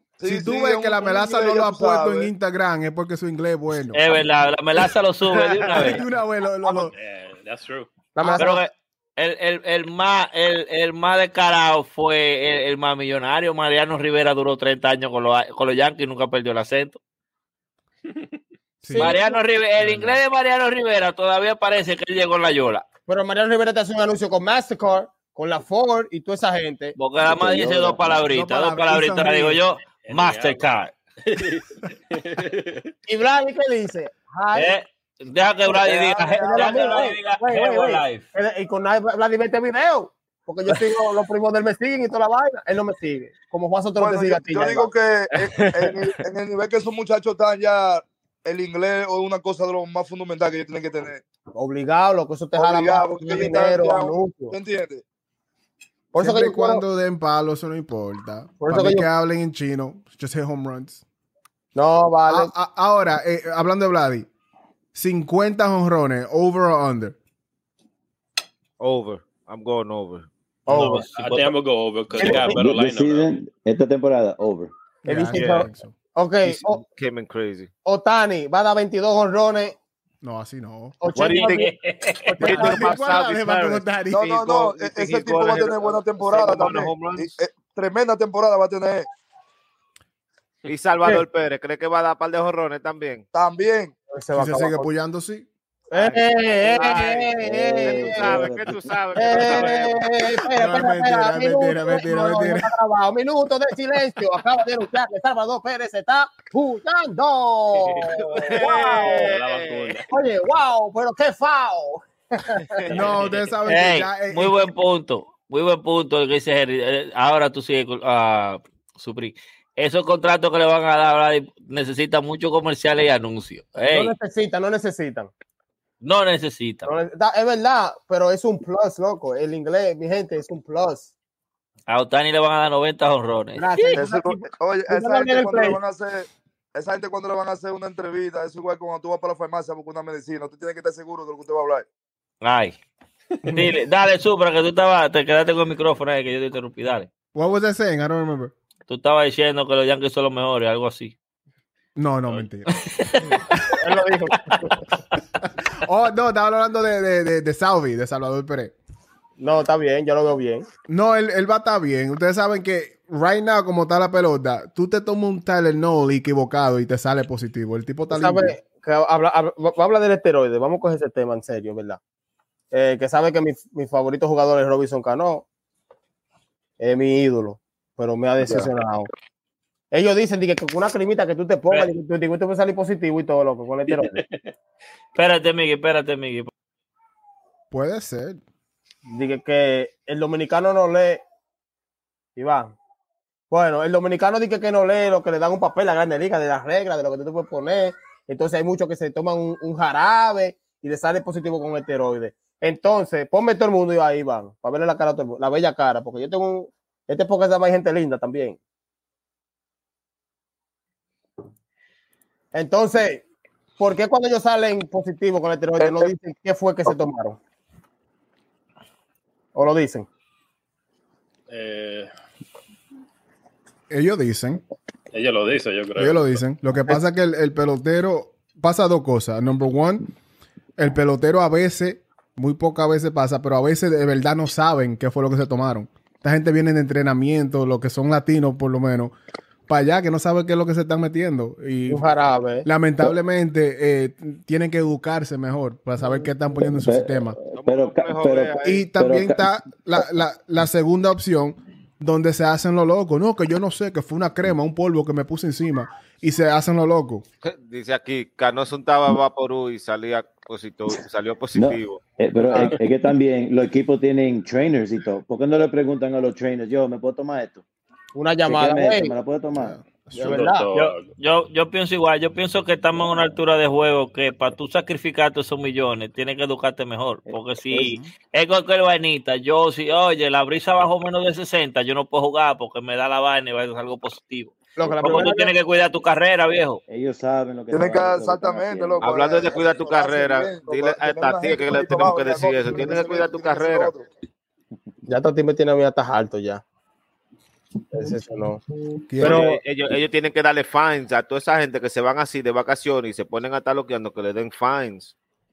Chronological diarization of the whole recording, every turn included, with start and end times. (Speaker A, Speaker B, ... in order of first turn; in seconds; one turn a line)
Speaker A: 0.2-2.3
Speaker B: 0.2-4.0
Speaker C: 3.9-6.0
Speaker B: 5.7-6.9
Speaker D: 6.7-7.9
Speaker E: 8.2-8.6
Speaker C: 8.4-17.0
Speaker B: 18.8-19.2
Speaker C: 18.9-22.9
Speaker E: 19.0-19.3
Speaker B: 19.8-20.2
Speaker E: 23.1-27.0
Speaker C: 27.0-30.9
Speaker F: 27.2-28.2
Speaker B: 28.2-29.6
Speaker D: 30.1-30.6
Speaker D: 31.3-32.9
Speaker E: 33.1-34.7
Speaker C: 34.5-38.2
Speaker A: 35.7-37.1
Speaker E: 36.4-44.9
Speaker A: 44.0-51.2
Speaker E: 51.5-54.6
Speaker A: 52.5-55.0
Speaker E: 56.1-56.8
Speaker B: 56.2-61.0
Speaker E: 58.6-59.1
Speaker E: 61.8-62.5
Speaker B: 62.3-64.3
Speaker B: 64.9-67.2
Speaker G: 68.8-70.3
Speaker E: 70.7-71.1
Speaker C: 70.7-71.5
Speaker D: 70.7-73.3
Speaker E: 72.2-72.7
Speaker F: 72.2-74.7
Speaker B: 75.0-75.9
Speaker E: 75.1-76.8
Speaker G: 75.3-75.7
Speaker G: 76.5-77.7
Speaker E: 77.8-79.8
Speaker B: 80.2-81.0
Speaker E: 81.0-81.7
Speaker G: 81.1-81.7
Speaker C: 81.4-82.3
Speaker E: 82.2-83.0
Speaker G: 82.4-87.3
Speaker B: 82.5-84.5
Speaker A: 84.1-89.1
Speaker G: 90.7-93.2
Speaker A: 93.3-94.0
Speaker E: 94.1-94.9
Speaker B: 94.3-95.5
Speaker E: 95.9-98.5
Speaker G: 95.9-100.1
Speaker F: 97.4-98.9
Speaker E: 99.2-109.4
Speaker B: 100.5-102.7
Speaker D: 107.9-110.1
Speaker G: 108.1-110.0
Speaker E: 110.1-113.0
Speaker G: 112.8-113.2
Speaker B: 112.9-114.6
Speaker C: 113.7-124.1
Speaker E: 123.8-125.3
Speaker C: 126.0-126.9
Speaker E: 126.9-131.1
Speaker C: 131.9-134.0
Speaker E: 133.6-135.8
Speaker A: 133.9-141.9
Speaker C: 142.4-142.8
Speaker B: 143.4-143.7
Speaker C: 143.4-147.1
Speaker B: 147.3-148.5
Speaker C: 148.9-151.2
Speaker B: 152.0-152.7
Speaker C: 152.7-153.5
Speaker B: 153.3-153.7
Speaker E: 153.7-154.9
Speaker B: 155.6-158.8
Speaker E: 159.4-160.7
Speaker B: 160.9-168.6
Speaker E: 168.1-172.0
Speaker E: 172.7-175.4
Speaker E: 176.8-179.1
Speaker A: 178.4-178.7
Speaker E: 179.9-184.2
Speaker D: 183.9-184.5
Speaker C: 185.2-186.5
Speaker B: 187.7-188.4
Speaker E: 189.1-191.2
Speaker E: 192.4-192.7
Speaker E: 193.5-208.6
Speaker E: 212.5-213.2
Speaker E: 213.8-217.4
Speaker A: 215.8-216.1
Speaker E: 219.6-220.1
Speaker D: 221.5-222.1
Speaker B: 223.9-224.6
Speaker D: 225.1-226.4
Speaker B: 226.0-230.1
Speaker B: 230.8-239.1
Speaker B: 239.7-242.0
Speaker E: 241.9-242.7
Speaker B: 242.7-247.4
Speaker F: 246.6-249.5
Speaker G: 247.5-248.9
Speaker B: 248.6-257.2
Speaker G: 257.4-262.0
Speaker F: 261.6-267.6
Speaker E: 262.5-262.8
Speaker E: 268.1-269.1
Speaker F: 268.5-269.8
Speaker B: 269.6-270.4
Speaker E: 270.1-270.9
Speaker D: 270.2-271.1
Speaker C: 271.2-286.8
Speaker F: 277.3-277.8
Speaker B: 277.8-278.1
Speaker E: 284.8-285.5
Speaker F: 284.9-285.2
Speaker F: 286.9-289.1
Speaker A: 287.7-294.1
Speaker G: 289.0-293.9
Speaker E: 295.1-296.6
Speaker E: 297.9-298.6
Speaker B: 299.1-299.4
Speaker G: 299.2-305.1
Speaker E: 299.2-299.6